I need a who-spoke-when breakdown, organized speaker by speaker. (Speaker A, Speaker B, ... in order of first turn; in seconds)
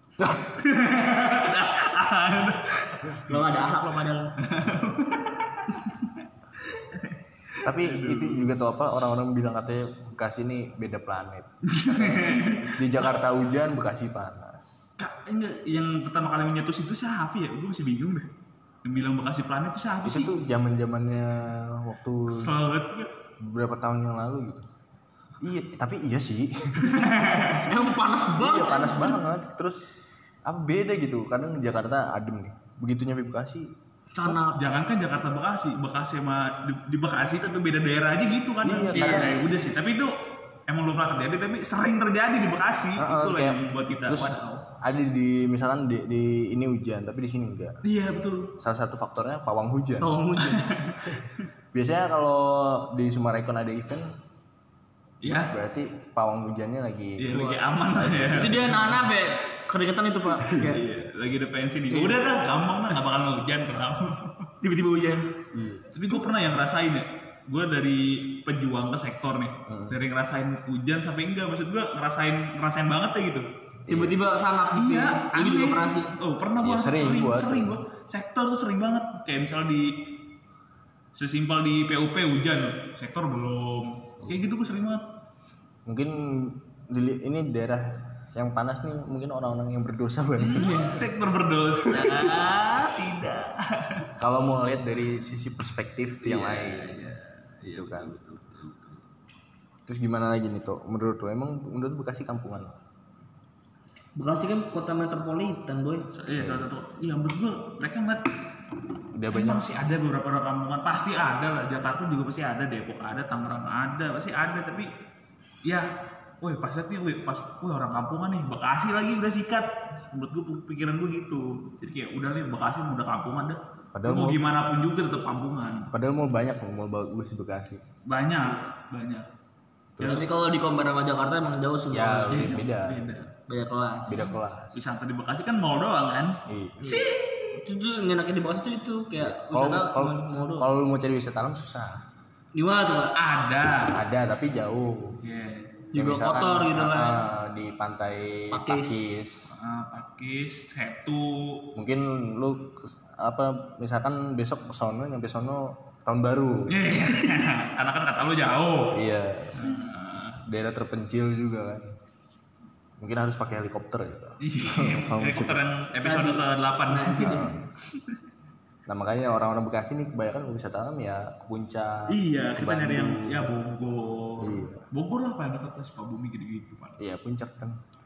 Speaker A: 0.5-3.8, 4.4-8.5, 11.7-13.1, 15.0-18.3, 18.8-20.3, 22.3-23.1, 26.8-27.7, 34.4-44.6, 47.8-48.5, 50.5-51.5, 55.2-55.5, 57.2-58.9, 60.4-64.5, 65.9-73.5, 74.7-80.0, 81.1-85.0, 90.4-94.1, 96.2-99.0, 106.1-108.3, 109.3-114.9, 115.6-125.9, 128.0-129.3, 130.0-130.2, 132.3-133.3, 134.7-137.5, 143.1-144.0, 145.2-145.8, 149.5-151.7, 156.7-159.0, 159.6-160.4, 164.4-168.1, 172.1-177.0
Speaker B: 3.2-4.3, 27.5-29.2, 34.1-34.7, 38.9-39.4, 50.0-50.7, 58.3-60.8, 61.9-62.2, 64.6-65.3, 73.9-76.1, 104.2-106.0, 130.0-132.6, 133.5-134.2, 136.8-140.7, 142.5-143.2, 145.9-147.2, 148.5-149.0, 166.0-167.5
Speaker C: 7.6-14.7, 20.0-22.6, 23.4-24.7, 25.4-27.1, 28.3-33.7, 38.6-39.3, 43.0-47.8, 48.6-50.2, 51.7-54.1, 55.3-59.0, 60.4-60.7, 65.5-65.9, 69.7-70.0, 73.9-74.2, 76.6-77.8, 85.8-91.1, 91.8-92.4, 94.2-98.2, 99.8-102.8, 106.3-106.7, 109.1-109.7, 123.9-124.4, 125.9-127.8, 130.0-130.2, 131.9-133.1, 134.1-134.8, 136.5-136.9, 139.2-142.0, 143.8-145.2, 145.9-149.5, 151.7-156.8, 158.9-159.8, 160.4-161.9, 163.0-165.6, 167.2-167.6, 168.9-173.5, 174.4-174.9, 177.0-177.8